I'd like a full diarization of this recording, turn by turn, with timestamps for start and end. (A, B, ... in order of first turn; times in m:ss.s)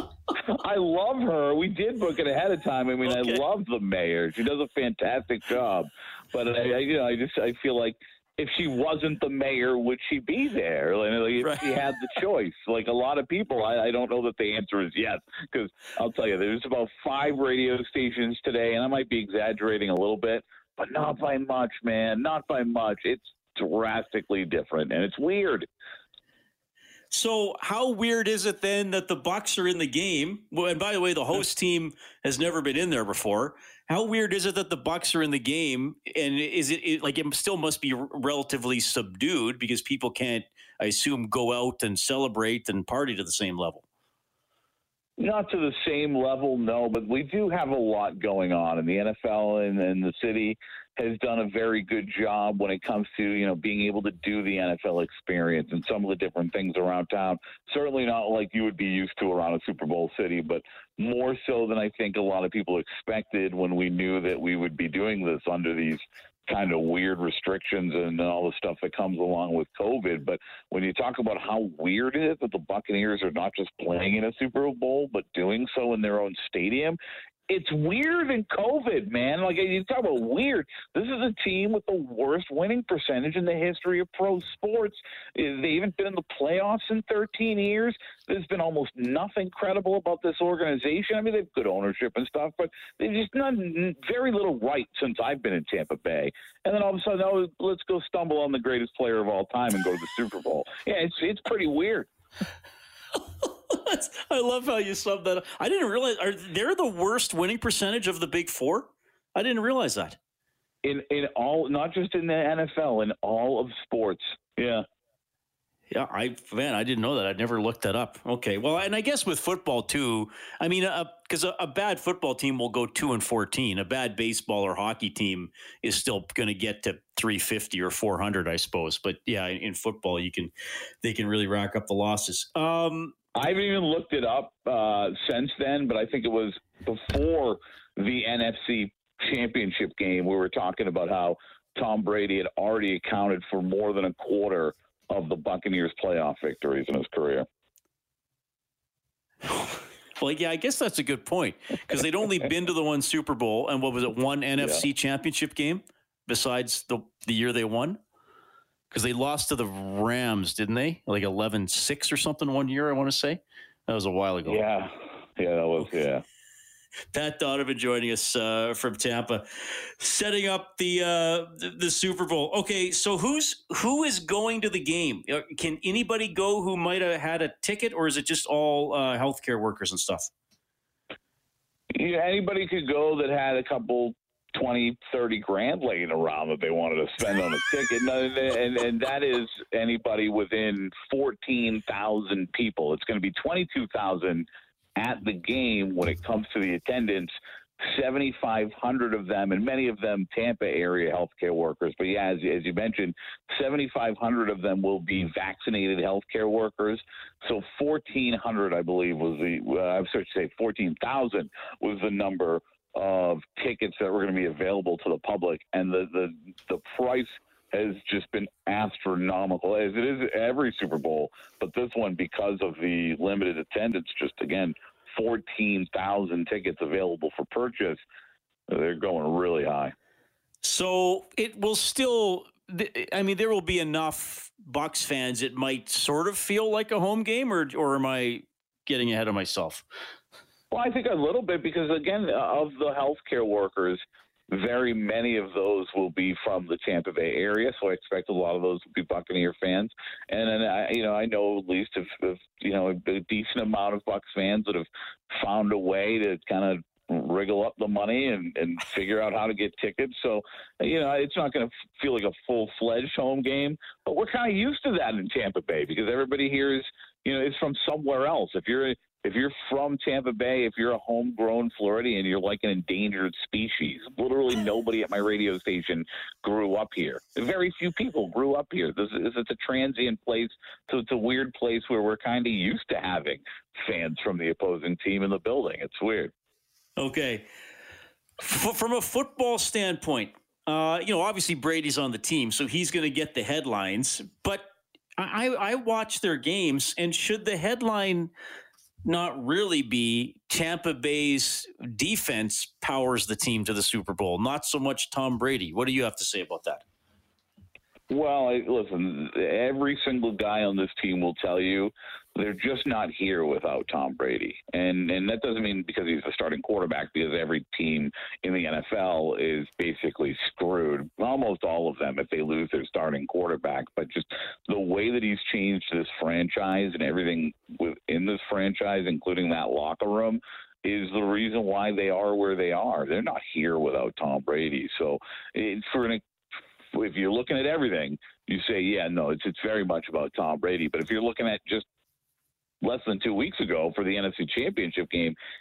0:00.3-0:25.7 A
0:03.1-0:03.4 B
0:11.4-0:11.9 B
0:27.1-0:43.8 B
0:45.2-1:17.0 A
1:17.5-1:42.1 A
1:43.4-1:50.2 B
1:50.8-1:54.9 A
1:55.9-2:10.5 B
2:11.0-2:13.1 B
2:13.4-2:27.4 A
2:29.5-2:38.0 B
2:38.9-2:44.6 B
2:44.4-2:46.2 A
2:47.1-3:00.3 B
3:01.9-3:48.0 A
3:48.7-3:49.9 A
3:50.6-3:59.8 B
4:00.7-4:46.3 A
4:47.0-4:47.5 B
4:48.4-4:58.3 B
4:59.0-5:06.8 B
5:08.1-5:36.2 A
5:36.9-5:41.9 A
5:42.8-5:45.4 A